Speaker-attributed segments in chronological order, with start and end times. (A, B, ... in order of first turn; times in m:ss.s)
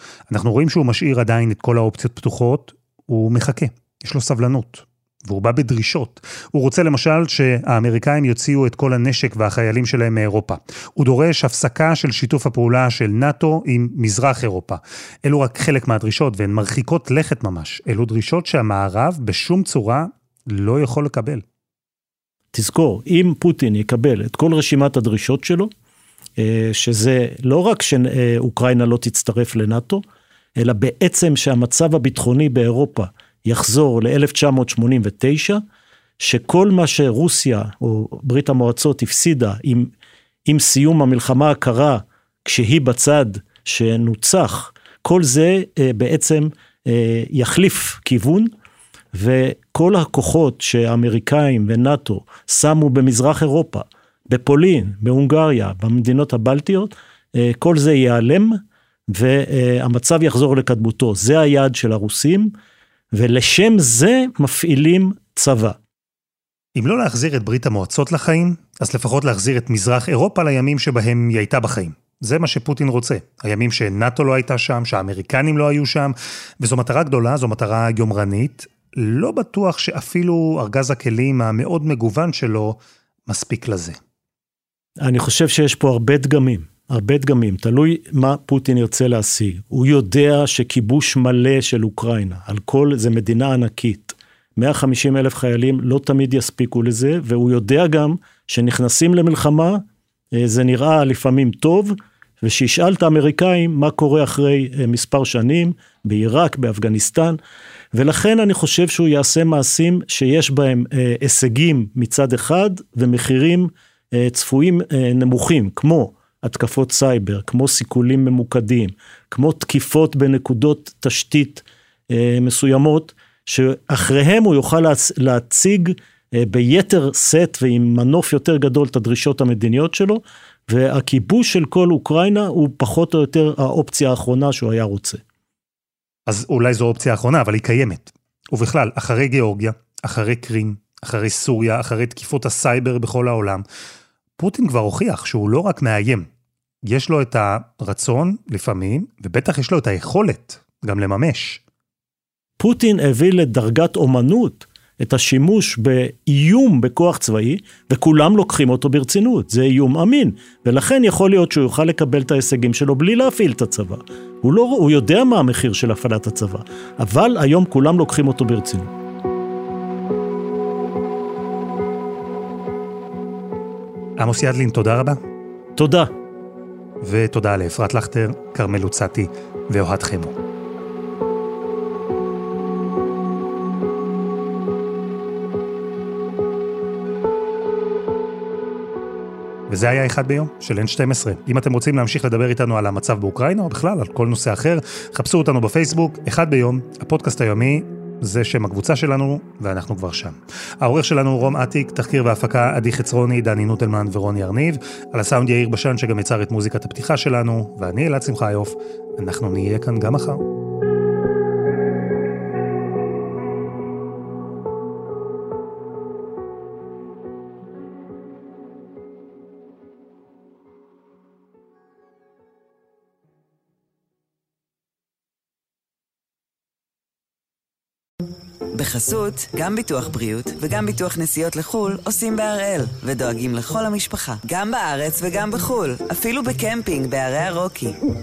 0:00.3-0:21.4 A
0:22.5-0:25.7 B
0:26.4-0:30.0 B
0:30.6-0:35.6 B
0:36.2-0:39.9 B
0:40.5-0:48.5 B
0:49.1-0:58.6 B
0:59.1-1:02.5 B
1:03.1-1:05.8 B
1:06.8-1:24.0 A
1:25.0-1:39.8 B
1:40.4-1:47.4 B
1:47.9-2:15.2 B
2:16.3-2:23.6 A
2:24.4-2:26.3 A
2:26.9-2:31.6 A
2:32.6-2:48.9 B
2:54.2-2:55.2 A
2:55.8-2:56.1 B
2:57.0-3:00.4 A
3:09.7-3:30.4 A
3:48.8-3:58.0 C